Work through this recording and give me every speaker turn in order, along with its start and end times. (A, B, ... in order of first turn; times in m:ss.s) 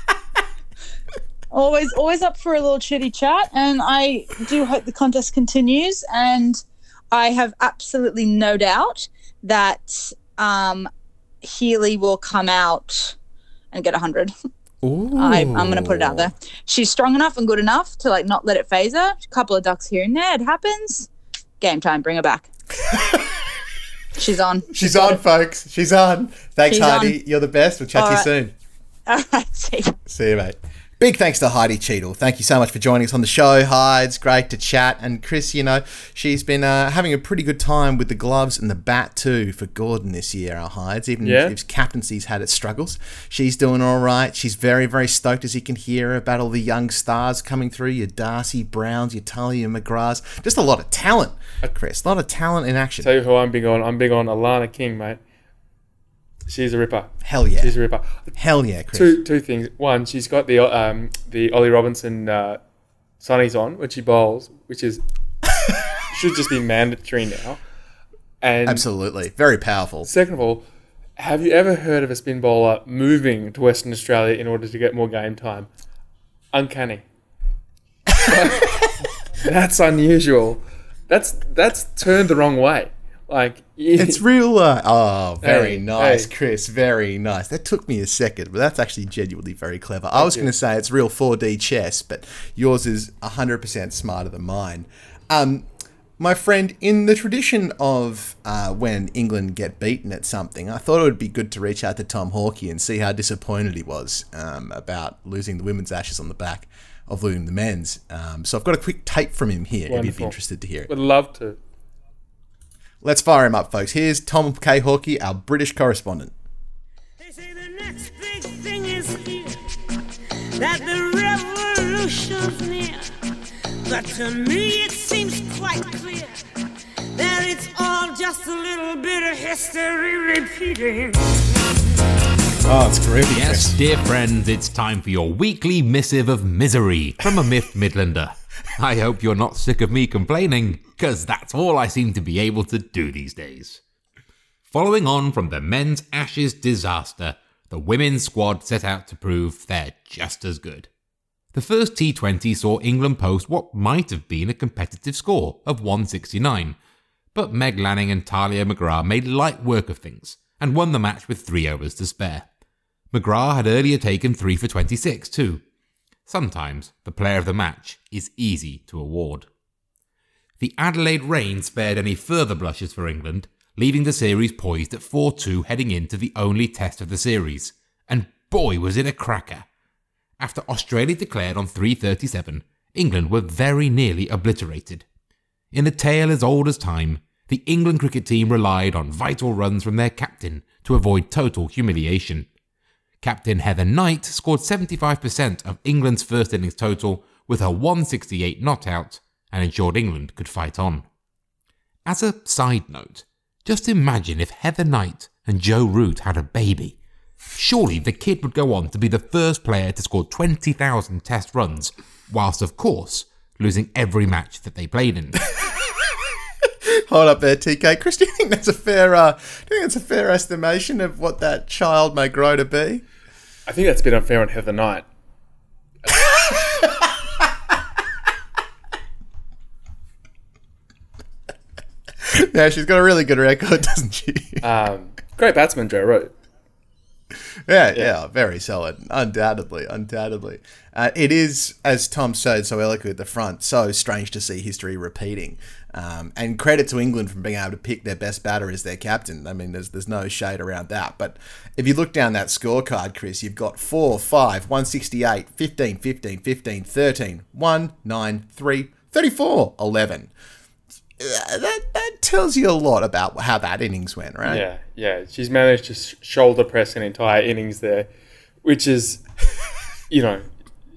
0:01.5-0:10.9 A
0:11.4-0:13.2 A
0:13.7-0:14.3 A
0:14.8-0:16.3 B
0:15.2-0:21.1 A
0:21.6-0:22.5 A
0:22.9-0:23.3 B
0:24.1-0:25.2 A
0:24.7-0:28.5 B
0:26.7-0:27.2 A
0:27.9-0:28.3 A
0:29.1-0:30.0 A
0:30.1-0:53.1 B
0:41.2-0:41.6 C
0:53.0-0:55.2 C
0:56.5-0:58.2 C
0:57.2-0:57.7 B
0:58.4-0:59.2 B
0:58.9-1:02.6 C
1:03.2-1:05.0 C
1:06.1-1:07.6 C
1:08.4-1:08.8 C
1:08.6-1:10.1 B
1:10.0-1:10.6 C
1:11.2-1:15.7 C
1:16.5-1:17.0 C
1:18.2-1:24.2 C
1:24.0-1:35.7 B
1:25.4-1:26.3 C
1:30.2-1:30.5 C
1:36.2-1:50.9 B
1:49.9-1:50.4 C
1:50.9-1:51.6 C
1:53.0-1:56.3 B
1:57.2-1:59.6 D
2:00.6-2:03.1 D
2:03.8-2:06.4 D
2:07.1-2:11.4 D
2:12.6-2:13.8 B
2:13.3-2:23.8 E
2:24.7-2:30.9 E
2:31.5-2:36.8 E
2:37.3-2:42.4 E
2:43.1-2:45.6 E
2:46.3-2:49.5 E
2:50.6-2:59.6 E
3:00.4-3:05.0 E
3:05.7-3:12.5 E
3:13.2-3:21.0 E
3:22.0-3:27.0 E
3:27.5-3:35.4 E
3:37.1-3:43.0 B
3:43.7-3:45.1 C
3:52.2-3:54.6 B
3:54.6-3:56.3 C
3:57.6-4:20.3 B
4:21.2-4:24.6 B
4:24.4-4:28.1 C
4:28.6-4:29.2 C
4:30.1-4:30.5 C